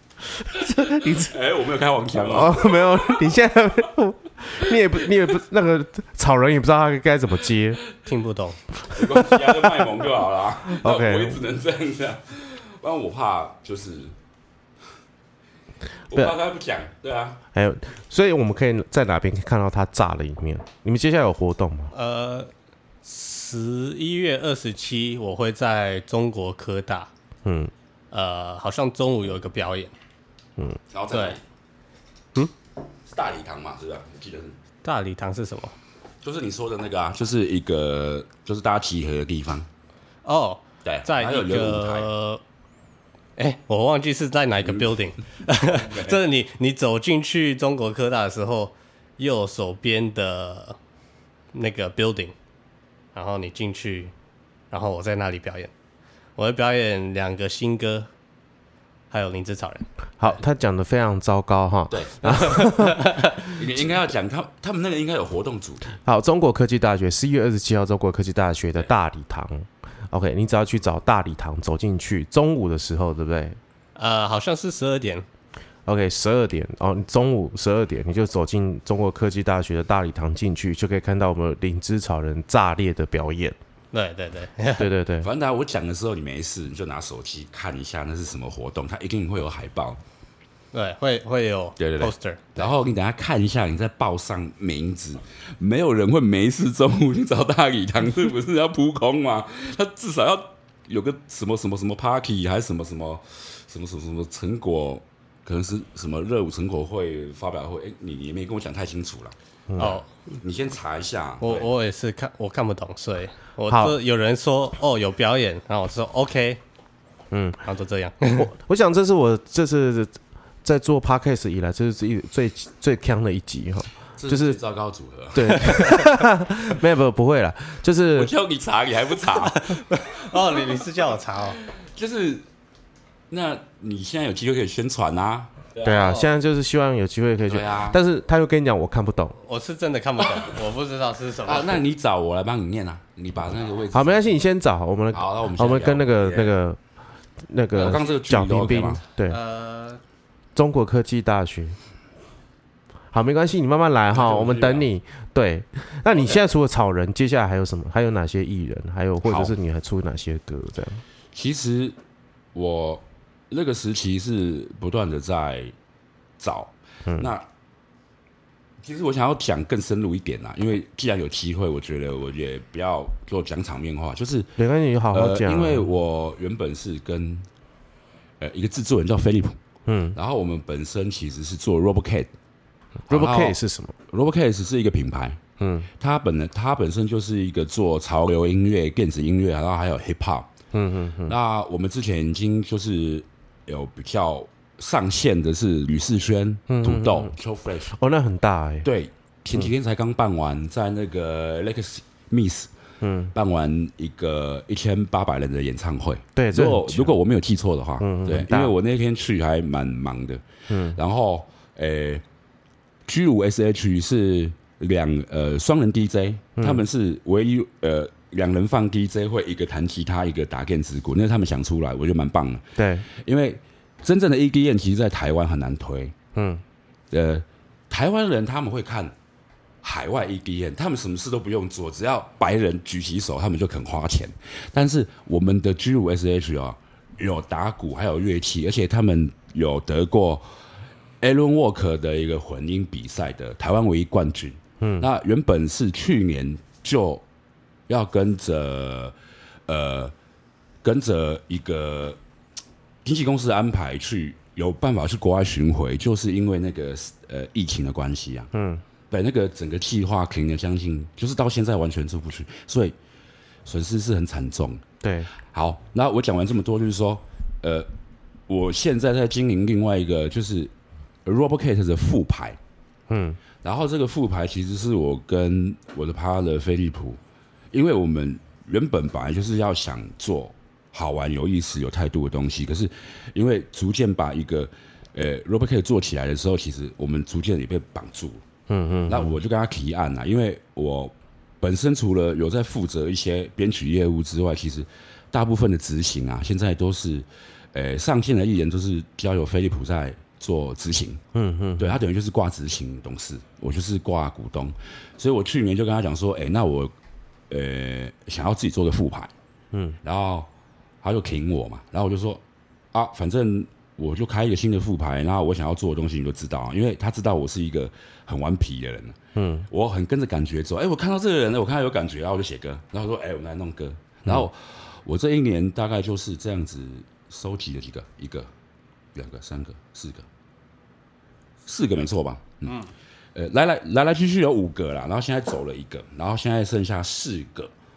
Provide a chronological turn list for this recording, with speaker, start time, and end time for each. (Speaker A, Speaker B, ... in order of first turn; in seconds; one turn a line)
Speaker A: 0.4-1.3
Speaker B: 0.7-3.2
Speaker A: 2.1-7.8
Speaker C: 8.0-8.6
Speaker B: 8.8-14.1
Speaker A: 8.8-9.9
Speaker A: 10.7-11.4
Speaker B: 16.1-17.4
Speaker A: 17.5-21.9
Speaker C: 21.9-22.5
Speaker C: 23.0-27.1
Speaker A: 27.4-27.7
Speaker C: 28.1-29.9
Speaker B: 30.9-31.4
Speaker C: 31.1-31.4
Speaker B: 33.1-34.5
Speaker C: 34.8-35.7
Speaker B: 36.2-39.7
Speaker C: 40.2-42.4
Speaker B: 40.8-42.1
Speaker C: 43.4-50.8
Speaker B: 45.5-46.2
Speaker C: 51.5-52.3
Speaker C: 53.1-54.1
Speaker C: 54.7-55.7
Speaker C: 56.4-58.1
Speaker C: 59.1-60.4
Speaker A: 60.2-63.2
Speaker B: 61.9-62.7
Speaker C: 62.2-63.4
Speaker B: 63.4-66.0
Speaker A: 66.0-73.6
Speaker C: 73.9-75.2
Speaker A: 75.8-83.5
Speaker C: 83.9-84.9
Speaker A: 84.8-85.3
Speaker B: 85.2-90.0
Speaker C: 90.7-92.6
Speaker B: 91.8-111.7
Speaker A: 109.7-110.0
Speaker C: 109.8-110.0
Speaker C: 111.4-116.6
Speaker A: 113.7-113.9
Speaker A: 117.3-117.6
Speaker C: 117.6-118.5
Speaker A: 118.3-124.6
Speaker B: 124.2-126.0
Speaker A: 125.3-128.3
Speaker C: 125.8-126.0
Speaker B: 128.1-130.5
Speaker C: 129.4-131.6
Speaker B: 131.7-132.4
Speaker B: 133.3-136.0
Speaker A: 135.8-139.3
Speaker C: 135.8-136.3
Speaker B: 137.5-138.0
Speaker C: 139.4-141.8
Speaker B: 141.4-144.3
Speaker A: 143.9-146.8
Speaker B: 145.1-146.5
Speaker A: 147.4-149.4
Speaker B: 147.7-149.0
Speaker C: 149.3-150.0
Speaker A: 150.5-151.8
Speaker A: 153.1-161.0
Speaker B: 154.1-154.8
Speaker B: 159.2-159.6
Speaker B: 161.3-161.9
Speaker B: 162.5-165.7
Speaker B: 166.4-167.4
Speaker B: 168.8-174.5
Speaker A: 174.6-175.9
Speaker B: 175.1-177.4
Speaker B: 178.4-179.6
Speaker A: 179.9-180.2
Speaker B: 180.1-182.3
Speaker A: 183.1-183.9
Speaker B: 183.1-185.4
Speaker A: 185.6-185.9
Speaker B: 186.0-190.5
Speaker A: 190.7-191.3
Speaker B: 191.2-197.9
Speaker A: 196.7-197.3
Speaker A: 197.9-198.9
Speaker B: 198.8-202.7
Speaker A: 203.0-203.3
Speaker B: 203.3-212.2
Speaker A: 206.3-207.1
Speaker A: 208.0-208.7
Speaker A: 210.7-211.0
Speaker B: 213.1-226.1
Speaker A: 216.6-216.8
Speaker A: 222.8-223.1
Speaker A: 226.3-226.6
Speaker B: 227.1-229.1
Speaker B: 229.8-240.4
Speaker B: 241.2-247.2
Speaker A: 244.8-245.1
Speaker B: 247.9-249.1
Speaker B: 249.7-250.1
Speaker B: 250.8-252.2
Speaker B: 253.0-258.5
Speaker A: 258.5-258.8
Speaker B: 259.1-262.9
Speaker B: 263.6-264.8
Speaker A: 265.0-265.3
Speaker B: 265.5-267.9
Speaker B: 268.5-270.7
Speaker B: 271.2-272.6
Speaker A: 273.1-273.4
Speaker B: 273.6-277.2
Speaker B: 277.7-288.4
Speaker A: 288.7-289.4
Speaker B: 289.1-301.2
Speaker A: 301.3-302.0
Speaker B: 301.8-306.9
Speaker B: 307.5-309.3
Speaker A: 309.7-310.0
Speaker B: 310.0-310.5
Speaker B: 311.0-312.4
Speaker B: 312.9-319.2
Speaker A: 319.4-319.7
Speaker B: 319.7-328.5
Speaker B: 329.1-330.2
Speaker B: 331.6-332.8
Speaker C: 332.6-332.9
Speaker B: 333.3-337.7